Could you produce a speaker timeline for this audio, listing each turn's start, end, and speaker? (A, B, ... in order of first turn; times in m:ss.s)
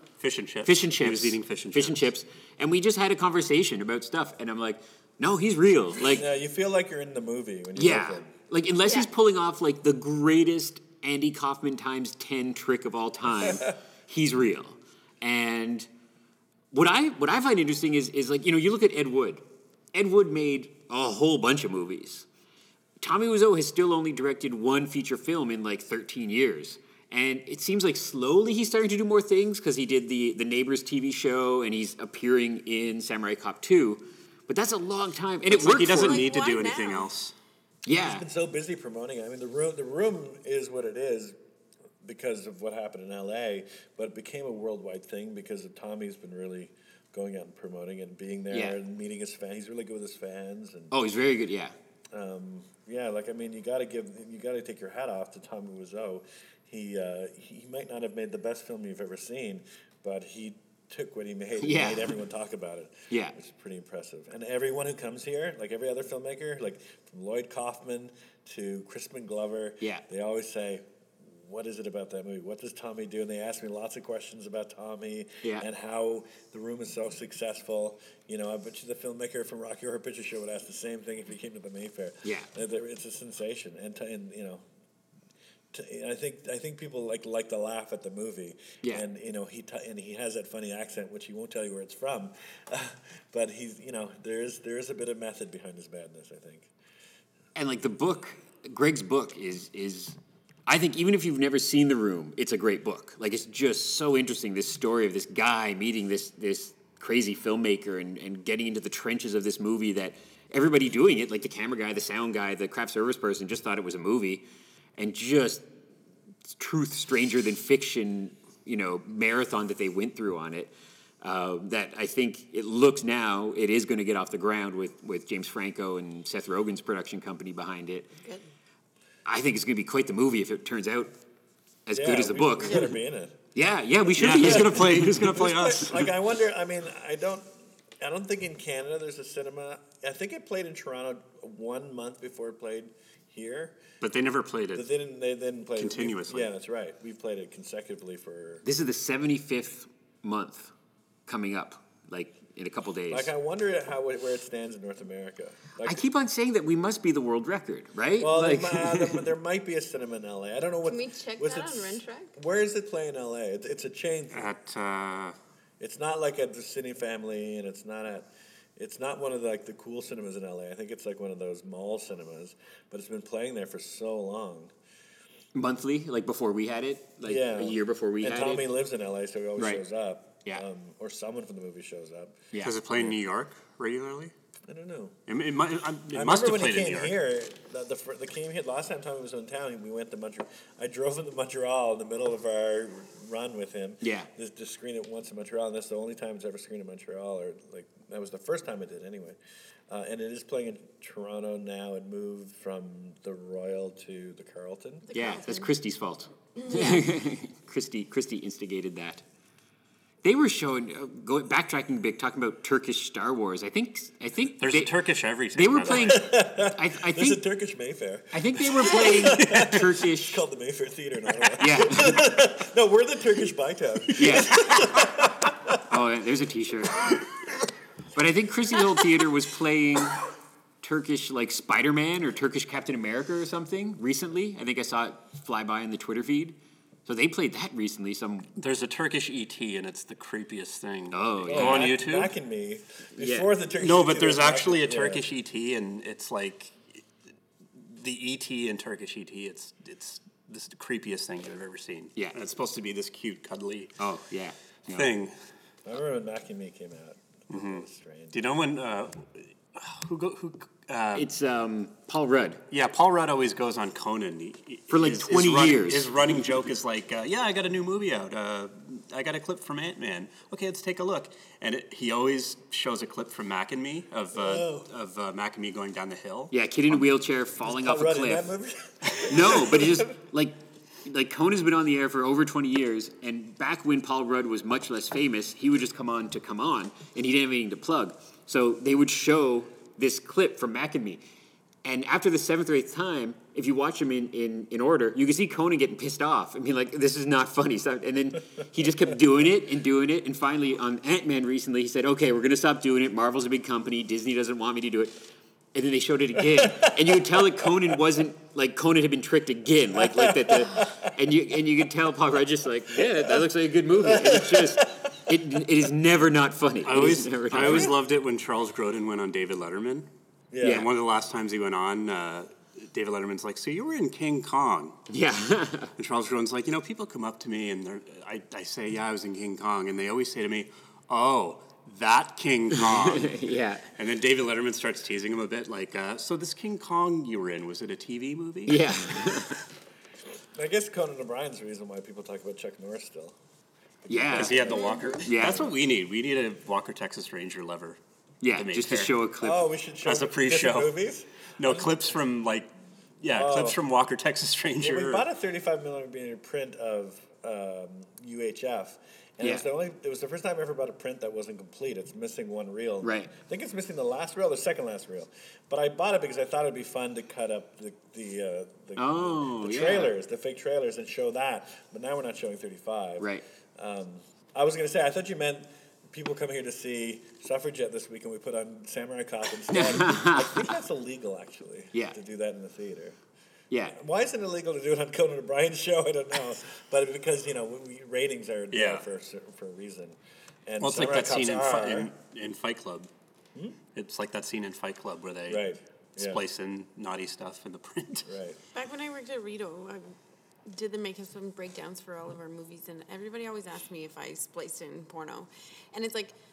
0:00.2-0:02.0 A
0:00.6-0:06.3 B
0:06.0-0:08.3 C
0:07.8-0:15.9 B
0:08.8-0:09.1 D
0:16.7-0:19.4 B
0:19.9-0:22.2 B
0:23.0-0:36.3 B
0:35.5-0:37.3 A
0:35.5-0:37.1 D
0:37.8-0:38.2 B
0:38.0-0:41.4 C
0:42.0-0:50.9 C
0:48.5-0:48.8 B
0:50.9-0:51.7 B
0:52.1-1:24.6 C
1:01.6-1:02.1 B
1:25.7-1:36.7 C
1:37.5-1:40.2 B
1:40.7-1:54.4 B
1:55.0-1:55.6 B
1:56.5-2:08.1 B
2:09.2-2:11.1 B
2:11.8-2:12.9 B
2:11.9-2:13.4 C
2:13.5-2:15.7 B
2:14.2-2:16.1 A
2:14.3-2:23.8 C
2:24.0-2:24.8 A
2:24.7-2:28.6 C
2:25.8-2:26.5 A
2:28.6-2:30.7 B
2:31.3-2:33.3 B
2:33.1-2:36.0 C
2:35.8-2:39.3 B
2:38.2-2:44.5 C
2:40.8-2:42.3 D
2:44.3-2:45.4 A
2:45.8-2:54.7 C
2:55.5-2:58.7 B
2:57.2-3:02.5 C
2:59.6-2:59.8 B
3:02.6-3:04.3 A
3:04.7-3:05.2 C
3:05.3-3:07.1 A
3:06.1-3:19.4 C
3:14.0-3:14.3 B
3:19.9-3:25.1 C
3:25.1-3:25.7 D
3:25.1-3:29.2 B
3:26.6-3:27.1 D
3:30.2-3:37.4 B
3:34.6-3:36.2 A
3:35.9-3:45.8 C
3:38.3-3:40.4 B
3:39.1-3:39.8 A
3:41.6-3:42.3 B
3:44.2-3:45.1 B
3:45.7-3:47.2 B
3:48.1-3:50.2 B
3:50.8-3:58.5 B
3:58.6-4:02.3 A
4:01.1-4:02.0 B
4:01.4-4:05.3 C
4:03.2-4:03.5 B
4:03.8-4:06.8 A
4:07.7-4:14.0 A
4:14.0-4:15.1 B
4:14.9-4:15.3 A
4:15.8-4:18.4 C
4:17.5-4:21.3 A
4:21.1-4:22.6 B
4:22.7-4:37.0 A
4:24.9-4:26.1 B
4:34.3-4:34.9 C
4:36.5-4:38.5 B
4:37.6-4:40.1 C
4:39.2-4:51.2 B
4:51.8-5:05.1 B
5:05.7-5:18.0 B
5:06.6-5:07.7 C
5:10.0-5:11.1 C
5:13.0-5:13.4 C
5:14.0-5:15.0 C
5:16.8-5:20.1 A
5:17.5-5:17.9 C
5:20.5-5:20.9 C
5:20.6-5:20.9 B
5:20.6-5:25.0 A
5:25.1-5:25.9 B
5:26.0-5:33.4 A
5:32.9-5:33.8 B
5:33.9-5:38.8 A
5:38.7-5:39.6 B
5:40.5-5:43.4 C
5:44.0-5:45.5 C
5:44.1-5:45.7 B
5:44.3-5:48.0 A
5:48.4-5:49.6 B
5:48.5-5:49.1 A
5:49.4-5:51.9 C
5:50.0-5:50.9 A
5:51.6-5:55.2 A
5:53.3-5:53.8 C
5:54.8-6:23.2 C
6:03.0-6:03.3 B
6:09.0-6:10.1 B
6:19.7-6:20.7 B
6:23.7-6:24.0 B
6:23.9-6:32.1 C
6:28.7-6:29.0 A
6:30.8-6:33.1 A
6:33.9-6:35.6 A
6:35.5-6:36.4 C
6:36.2-6:38.3 A
6:38.2-6:38.6 C
6:38.7-6:40.1 D
6:40.6-6:46.3 D